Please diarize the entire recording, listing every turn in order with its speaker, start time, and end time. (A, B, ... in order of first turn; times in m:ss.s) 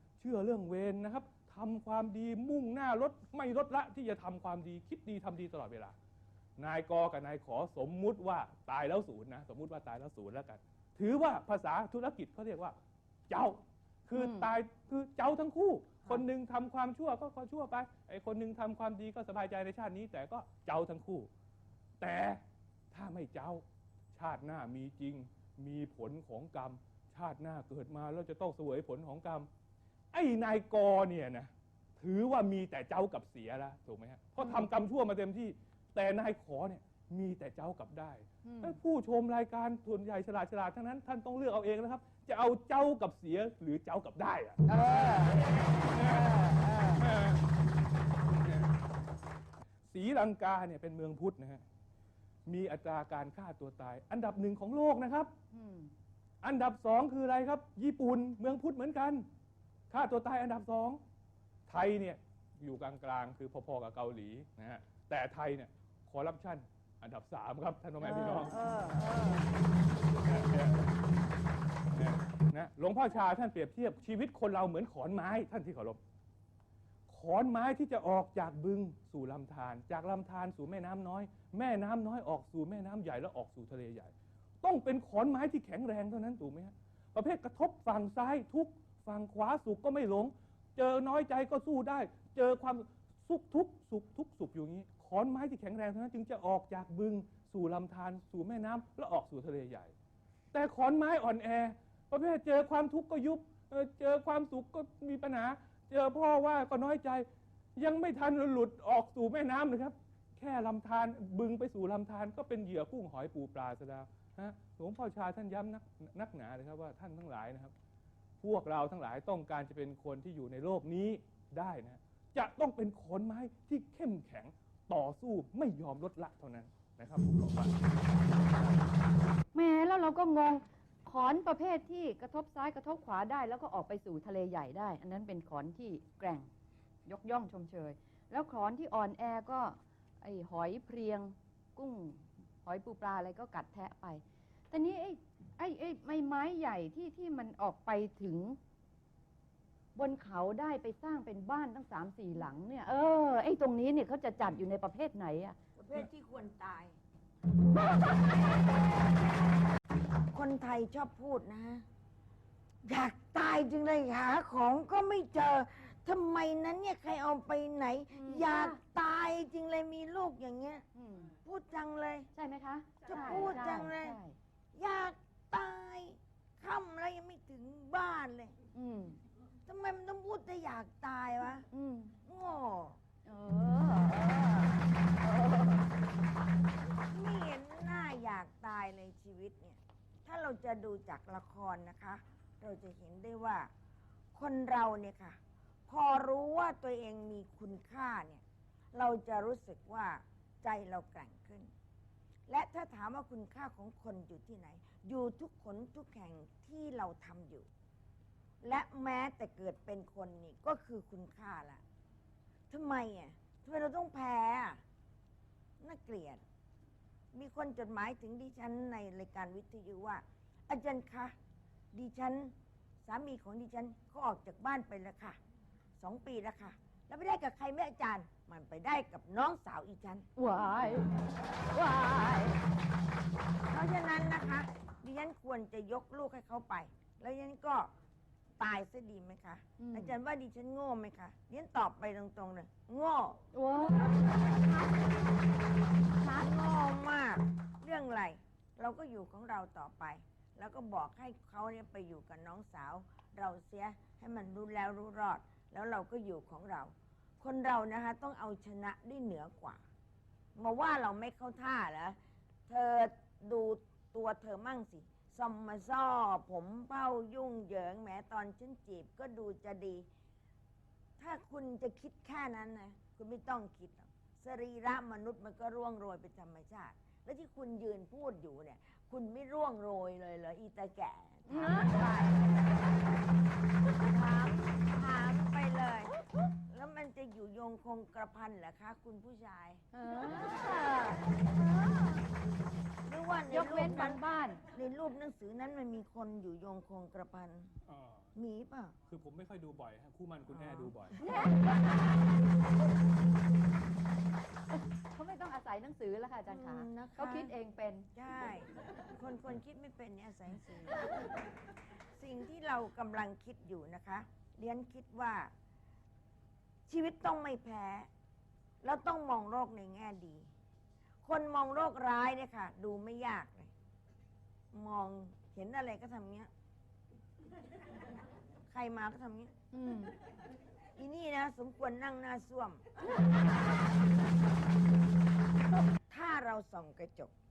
0:00.2-0:05.9 A
0:06.6-0:12.8 A
0:13.3-0:21.3 A
0:14.1-0:14.5 B
0:22.0-0:29.5 A
0:30.1-0:47.4 A
0:34.4-0:34.6 B
0:38.4-0:38.8 B
0:44.6-0:47.0 B
0:48.4-0:48.7 A
0:49.9-0:51.6 A
0:52.4-0:55.3 A
0:55.5-0:55.9 B
0:56.4-0:59.2 A
0:59.9-1:01.0 A
1:01.7-1:08.5 A
1:08.0-1:09.5 B
1:10.2-1:10.9 A
1:11.9-1:16.0 A
1:17.1-1:39.9 A
1:40.5-1:57.7 A
1:58.4-2:07.7 A
2:09.5-2:16.5 B
2:17.0-2:28.6 B
2:29.9-2:35.6 B
2:35.8-2:37.0 C
2:40.3-2:41.8 C
2:42.8-2:50.8 C
2:48.1-2:48.8 B
2:50.9-2:51.4 B
2:51.4-2:52.3 C
2:52.3-2:54.4 B
2:53.0-2:54.2 C
2:54.7-2:58.6 C
2:58.7-2:59.2 B
2:59.7-3:01.7 C
3:01.7-3:02.2 B
3:02.2-3:03.0 C
3:03.2-3:05.9 B
3:07.1-3:13.7 C
3:14.3-3:21.7 C
3:22.5-3:27.7 C
3:28.6-3:31.8 C
3:32.7-3:34.8 C
3:35.8-3:36.4 C
3:37.3-3:41.3 C
3:41.9-3:45.4 C
3:46.0-3:50.3 C
3:50.4-3:51.2 B
3:51.7-3:52.6 B
3:53.7-3:57.9 C
3:58.6-4:03.4 C
3:59.8-4:00.1 B
4:03.5-4:05.2 B
4:06.2-4:06.5 B
4:06.3-4:19.8 C
4:20.5-4:22.2 C
4:22.7-4:30.1 C
4:31.2-4:42.8 C
4:41.5-4:42.0 B
4:43.9-4:49.8 C
4:49.9-4:52.2 B
4:53.0-4:54.2 C
4:53.5-4:54.6 B
4:54.7-4:57.7 C
4:57.9-4:58.3 A
4:58.3-4:58.9 C
4:59.1-5:01.2 A
5:01.3-5:01.7 B
5:05.0-5:08.1 B
5:06.5-5:07.5 C
5:08.1-5:11.1 C
5:12.2-5:15.5 C
5:16.9-5:18.1 C
5:18.8-5:20.5 C
5:21.2-5:23.7 C
5:24.7-5:26.5 C
5:28.7-5:29.5 C
5:29.7-5:30.1 B
5:31.0-5:32.8 C
5:36.1-5:37.3 C